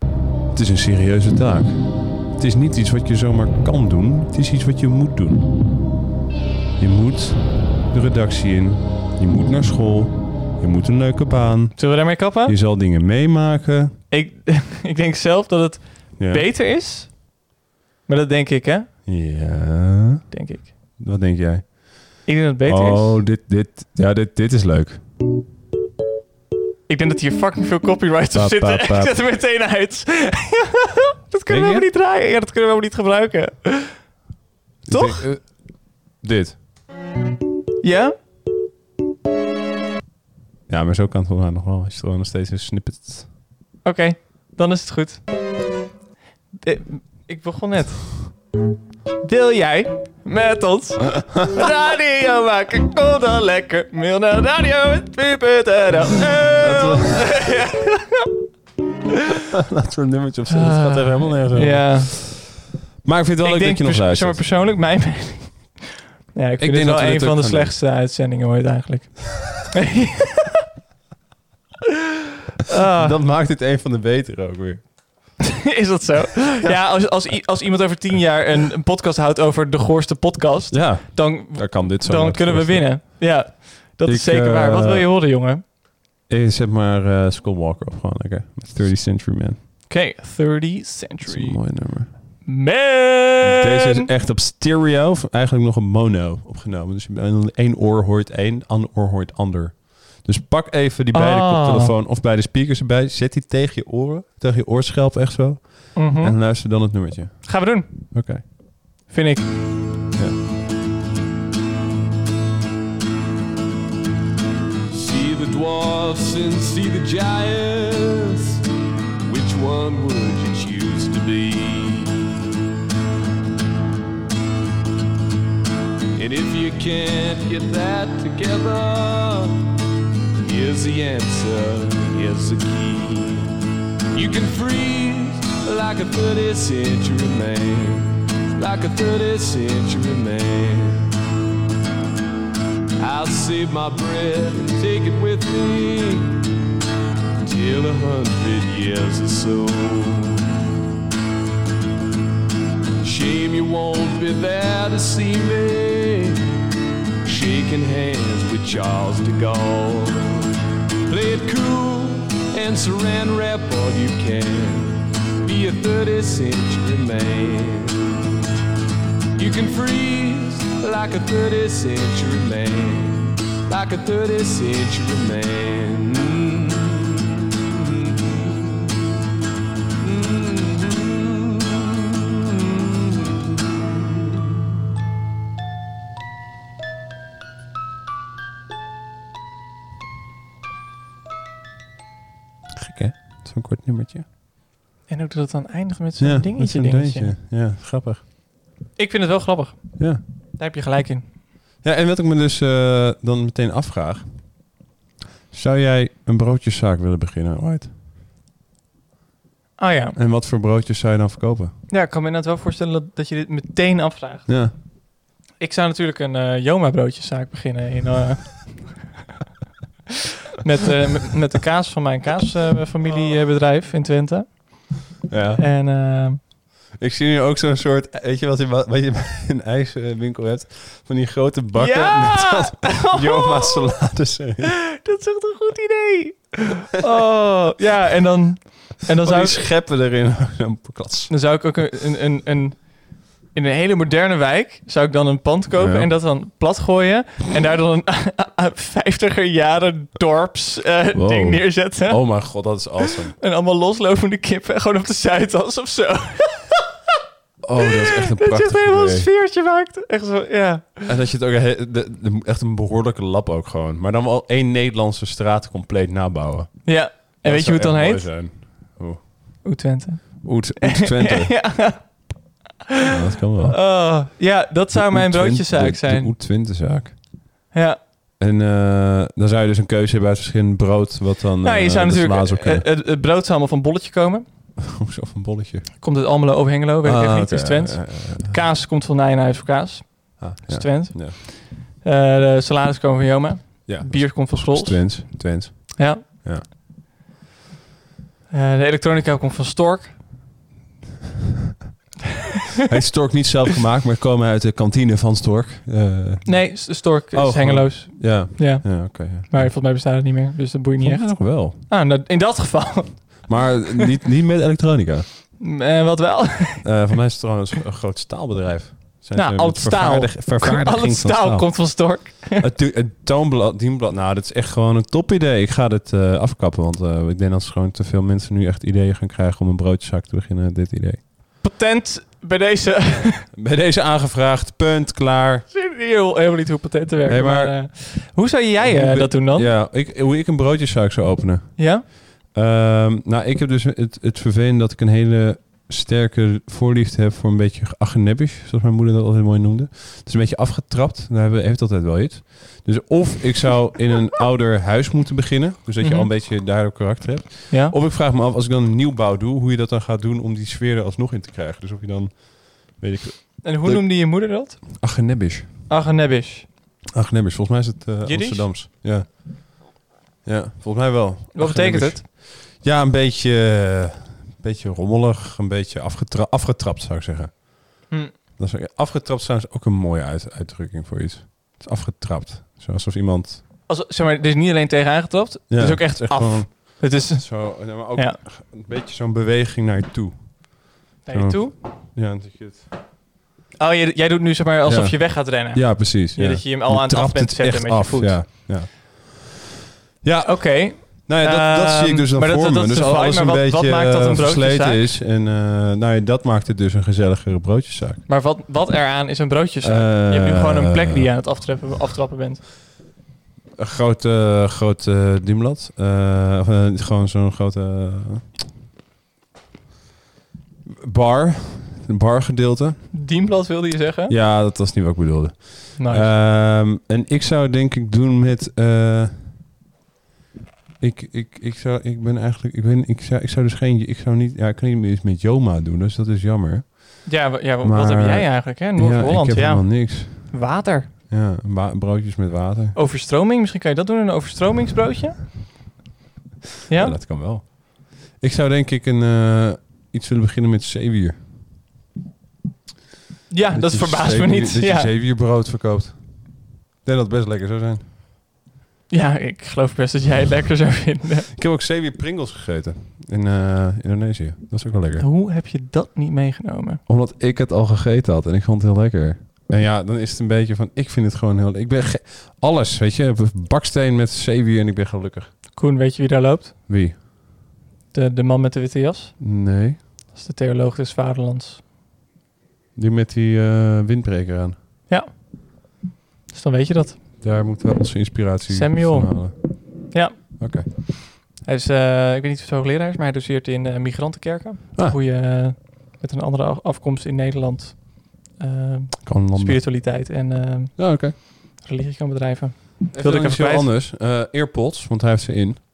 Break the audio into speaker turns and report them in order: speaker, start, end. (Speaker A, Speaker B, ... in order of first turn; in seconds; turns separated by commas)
Speaker A: 0.5-5.5, Speaker A: 6.8-14.0, Speaker B: 11.8-12.6, Speaker B: 14.1-17.2, Speaker A: 16.2-16.5, Speaker B: 18.1-18.9, Speaker A: 19.1-20.3, Speaker B: 20.3-20.7, Speaker A: 21.0-25.0, Speaker B: 22.3-23.2, Speaker B: 26.9-34.1, Speaker A: 28.3-29.2, Speaker A: 31.5-31.9, Speaker A: 34.9-36.6, Speaker B: 34.9-35.2, Speaker B: 37.8-38.1, Speaker A: 40.7-43.3, Speaker B: 43.8-45.2, Speaker B: 46.6-48.4, Speaker B: 49.2-58.3, Speaker A: 56.6-57.4, Speaker A: 59.5-62.4, Speaker B: 60.5-62.4, Speaker A: 63.0-64.5, Speaker B: 63.4-70.4, Speaker A: 66.6-67.8, Speaker B: 72.7-73.2, Speaker A: 72.9-74.9, Speaker B: 75.7-85.6, Speaker A: 80.7-83.4, Speaker A: 84.0-85.1, Speaker A: 86.3-89.6, Speaker B: 89.9-94.1, Speaker A: 91.3-92.1, Speaker A: 93.4-108.5, Speaker B: 101.1-101.9, Speaker B: 106.0-106.4, Speaker B: 107.4-109.5, Speaker C: 114.9-118.6, Speaker C: 119.2-122.2, Speaker C: 126.2-129.7, Speaker C: 130.4-133.5, Speaker C: 134.1-141.1, Speaker C: 143.0-146.5, Speaker C: 147.4-150.4, Speaker C: 153.0-156.4, Speaker C: 157.2-160.5, Speaker C: 161.1-168.2, Speaker C: 169.3-178.9, Speaker C: 180.0-183.5, Speaker A: 192.7-194.3, Speaker B: 195.1-197.3, Speaker A: 196.2-198.2, Speaker B: 199.0-201.3, Speaker A: 201.8-204.6, Speaker A: 205.5-207.9, Speaker B: 209.8-210.2, Speaker A: 210.2-211.8, Speaker B: 211.9-214.9, Speaker A: 214.5-214.8, Speaker B: 215.6-219.1, Speaker B: 220.6-225.1, Speaker A: 225.3-225.6, Speaker B: 225.6-226.4, Speaker A: 227.0-234.8, Speaker B: 231.8-234.1, Speaker B: 234.9-239.7, Speaker A: 239.2-241.3, Speaker B: 241.3-252.9, Speaker A: 245.7-246.1, Speaker A: 251.1-253.4, Speaker B: 253.4-256.8, Speaker A: 257.6-259.3, Speaker B: 257.9-261.1, Speaker A: 261.1-269.7, Speaker B: 266.9-268.3, Speaker B: 269.6-272.4, Speaker A: 270.4-272.0, Speaker A: 273.1-274.2, Speaker B: 273.6-276.3, Speaker A: 274.9-277.3, Speaker B: 277.7-278.0, Speaker A: 278.4-282.9, Speaker B: 281.6-284.4, Speaker A: 284.9-285.9, Speaker B: 286.0-296.4, Speaker A: 287.0-288.6, Speaker A: 290.4-291.4, Speaker A: 293.9-296.6, Speaker B: 298.5-300.2, Speaker A: 302.9-309.7, Speaker B: 306.4-313.8, Speaker A: 311.0-311.8, Speaker A: 313.5-315.3, Speaker B: 315.6-317.0, Speaker A: 316.8-331.3, Speaker B: 319.4-322.6, Speaker B: 331.6-333.5, Speaker A: 333.5-335.7, Speaker B: 335.7-339.7, Speaker A: 337.3-365.8, Speaker B: 341.8-342.0, Speaker B: 356.0-356.3, Speaker B: 357.7-357.9, Speaker B: 363.6-365.1, Speaker B: 365.9-366.7, Speaker A: 367.1-383.6, Speaker B: 368.2-368.7, Speaker B: 371.6-372.2, Speaker B: 383.9-388.4, Speaker A: 385.7-392.9, Speaker B: 391.2-391.7, Speaker B: 393.8-398.7, Speaker A: 394.9-399.5, Speaker A: 400.2-408.2, Speaker B: 400.4-405.1, Speaker B: 408.3-412.6, Speaker A: 409.8-411.3, Speaker A: 413.8-418.6, Speaker A: 420.9-423.1, Speaker B: 423.1-424.3, Speaker A: 424.3-429.5, Speaker B: 426.0-426.3, Speaker A: 431.0-440.7, Speaker B: 437.3-441.1, Speaker A: 441.3-443.0, Speaker B: 442.9-445.5, Speaker B: 446.9-447.2, Speaker A: 446.9-451.4, Speaker B: 453.5-455.1, Speaker A: 453.7-458.0, Speaker B: 459.1-461.5, Speaker A: 461.6-465.3, Speaker B: 465.2-467.0, Speaker A: 467.1-475.6, Speaker B: 475.8-476.9, Speaker A: 476.9-477.2, Speaker B: 478.1-479.5, Speaker A: 479.4-480.0, Speaker B: 480.3-481.8, Speaker A: 482.9-484.8, Speaker B: 486.5-487.2, Speaker A: 487.4-490.9, Speaker B: 488.7-503.9, Speaker A: 499.2-500.1, Speaker A: 501.0-501.4, Speaker A: 503.1-505.8